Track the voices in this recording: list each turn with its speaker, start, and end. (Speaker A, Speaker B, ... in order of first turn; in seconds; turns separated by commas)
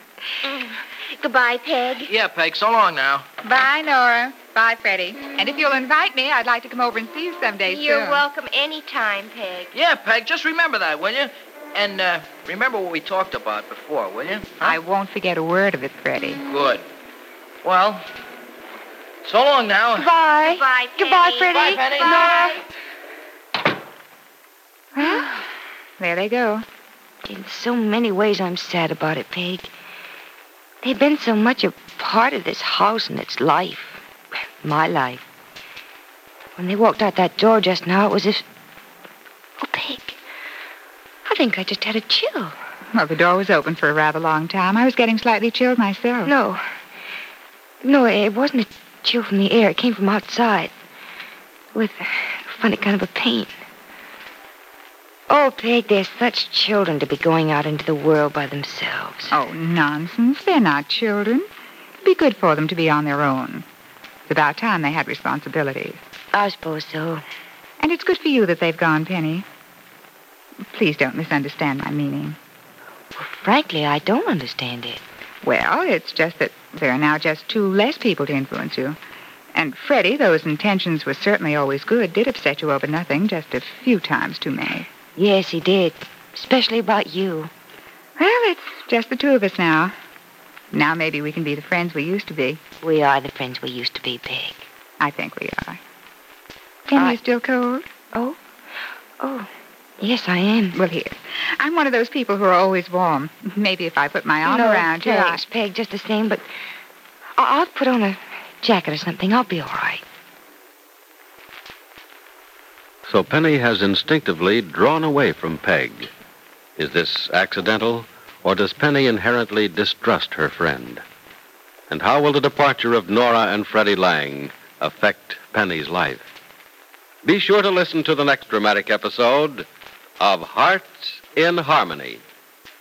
Speaker A: 0.4-2.1, Speaker B: 2.1-3.2, Speaker C: 3.4-8.2, Speaker A: 7.7-9.7, Speaker B: 9.7-14.8, Speaker C: 14.6-16.4, Speaker B: 16.4-16.8, Speaker B: 17.6-18.0, Speaker B: 19.2-20.1, Speaker D: 19.9-22.6, Speaker A: 20.4-22.6, Speaker B: 21.4-22.4, Speaker C: 24.9-25.3, Speaker D: 25.0-25.3, Speaker C: 26.0-26.6, Speaker D: 27.2-29.7, Speaker D: 30.8-34.0, Speaker D: 34.6-35.2, Speaker D: 36.6-38.4, Speaker D: 39.6-40.2, Speaker D: 41.2-42.5, Speaker C: 42.9-46.3, Speaker D: 46.2-46.6, Speaker D: 47.8-50.7, Speaker D: 51.7-53.5, Speaker D: 55.3-59.4, Speaker C: 59.3-61.4, Speaker C: 62.0-63.6, Speaker C: 64.3-66.0, Speaker D: 66.3-67.2, Speaker C: 67.8-69.4, Speaker C: 70.7-72.4, Speaker D: 73.2-75.0, Speaker C: 75.4-79.0, Speaker C: 79.5-84.9, Speaker D: 85.2-87.5, Speaker C: 88.2-89.9, Speaker C: 90.7-92.6, Speaker D: 92.8-94.7, Speaker C: 95.0-95.8, Speaker C: 96.9-97.9, Speaker D: 96.9-97.2, Speaker D: 98.1-98.4, Speaker D: 99.2-99.5, Speaker D: 100.0-100.8, Speaker C: 100.7-105.4, Speaker D: 104.4-106.4, Speaker D: 107.4-110.0, Speaker E: 113.1-116.1, Speaker E: 116.8-121.0, Speaker E: 121.9-126.2, Speaker E: 127.2-129.7, Speaker E: 130.2-132.2